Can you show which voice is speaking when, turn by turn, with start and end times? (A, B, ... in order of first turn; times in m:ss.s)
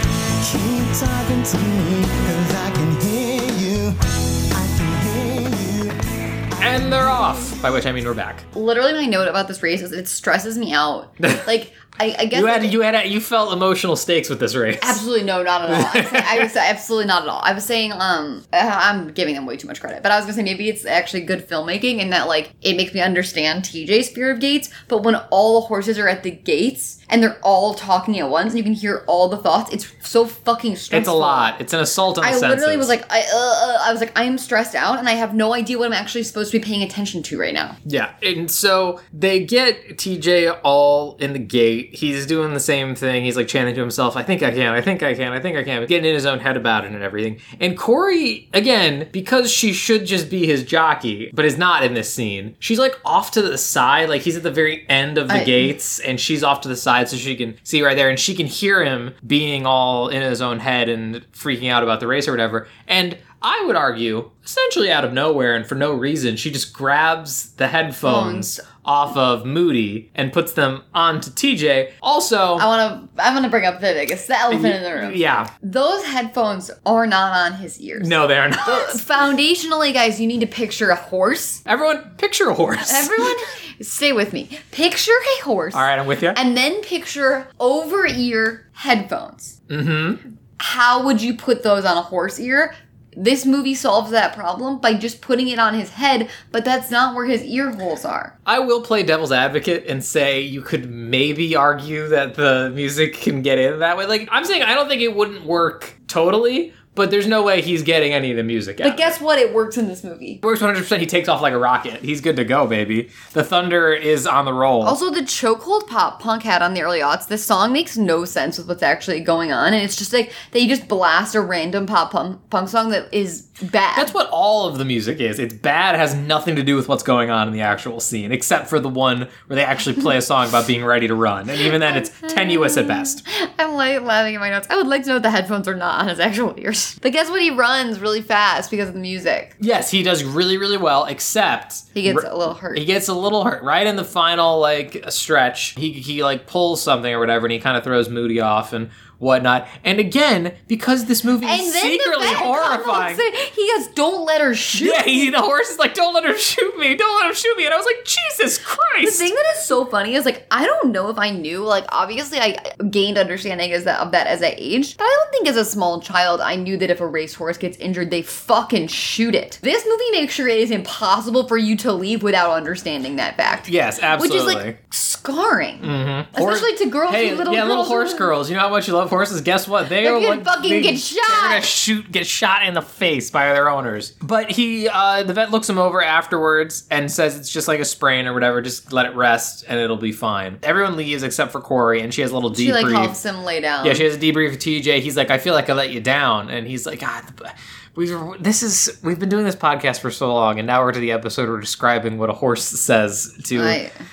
0:00.4-0:04.0 A
0:04.5-0:06.0 A
0:06.5-0:07.6 A
0:06.6-0:08.4 B
0:08.5-0:12.8 C
0:12.3-0:15.0 B
0:14.8-0:31.5 C
0:15.6-0:16.5 B
0:30.9-0:32.9 B
0:32.2-0:37.8 C
0:37.8-1:12.7 B
0:55.3-0:55.7 C
1:08.0-1:08.6 C
1:12.6-1:21.6 C
1:14.5-1:15.5 B
1:18.0-1:19.0 B
1:21.6-1:23.4 B
1:22.8-1:29.5 C
1:25.7-1:26.4 B
1:29.7-1:30.2 B
1:30.6-1:38.3 C
1:38.4-1:49.2 B
1:48.8-1:50.4 C
1:50.4-1:55.0 B
1:54.8-2:04.1 C
2:03.9-2:13.2 B
2:11.8-2:19.5 C
2:19.6-2:33.2 B
2:21.9-2:22.8 C
2:31.4-2:35.3 C
2:34.7-2:39.3 B
2:39.0-2:58.3 C
2:53.7-2:54.8 B
2:55.8-3:13.1 B
3:00.0-3:01.7 C
3:12.5-3:14.0 C
3:13.8-3:23.8 B
3:23.5-3:23.9 C